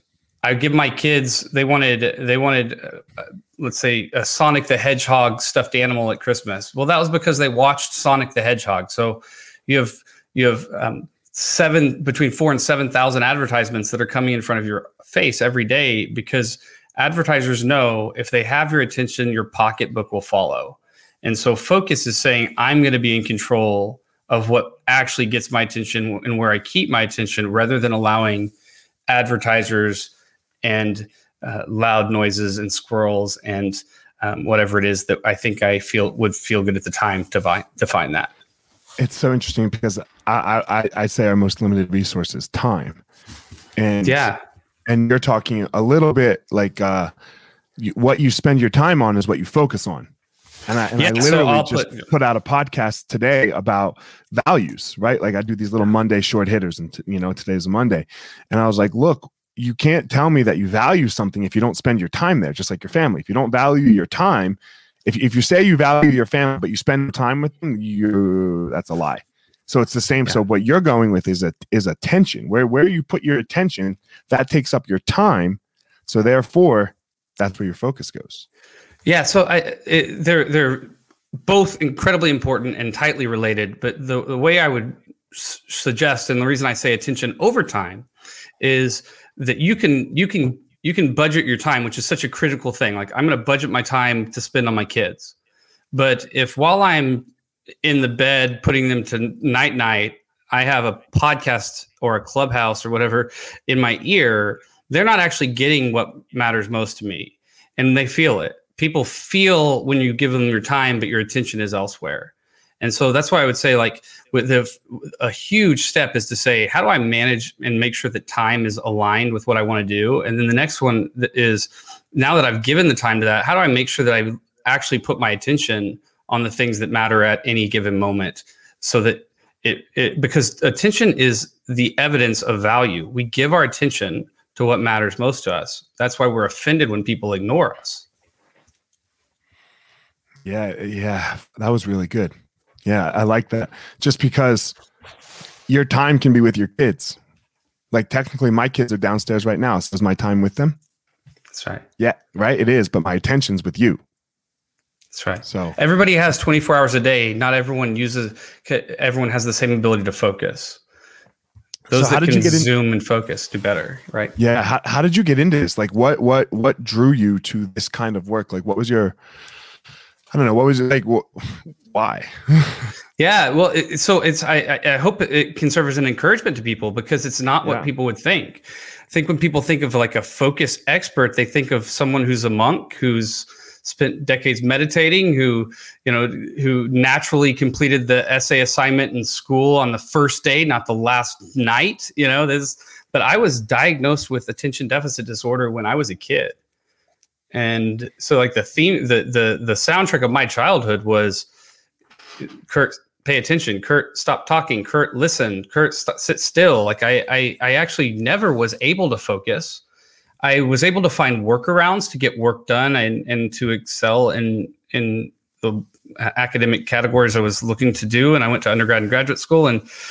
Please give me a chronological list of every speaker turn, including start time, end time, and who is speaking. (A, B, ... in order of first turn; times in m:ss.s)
0:00.4-0:28.5 A
0:29.1-0:30.1 A
0:30.6-0:38.3 A
0:39.0-0:43.0 B
0:43.8-0:44.3 B
0:44.0-0:44.4 A
0:44.9-0:47.1 B
0:47.8-0:50.1 B
0:50.7-1:18.4 B
0:51.0-0:52.1 A
1:19.0-1:28.1 A
1:28.6-1:35.4 A
1:35.9-1:37.3 A
1:37.8-2:18.0 A
2:20.4-2:22.3 B
2:22.8-2:24.8 B
2:25.7-2:27.2 B
2:27.9-2:30.8 B
2:31.5-2:31.8 A
2:32.0-2:34.0 B
2:35.1-2:40.8 A
2:35.4-2:35.8 B
2:41.9-2:42.7 B
2:41.9-2:44.4 A
2:44.4-2:49.1 B
2:50.3-2:52.9 B
2:53.2-3:16.6 A
2:57.6-2:57.9 B
3:17.5-3:21.5 A
3:22.4-3:29.8 A
3:30.4-3:39.9 A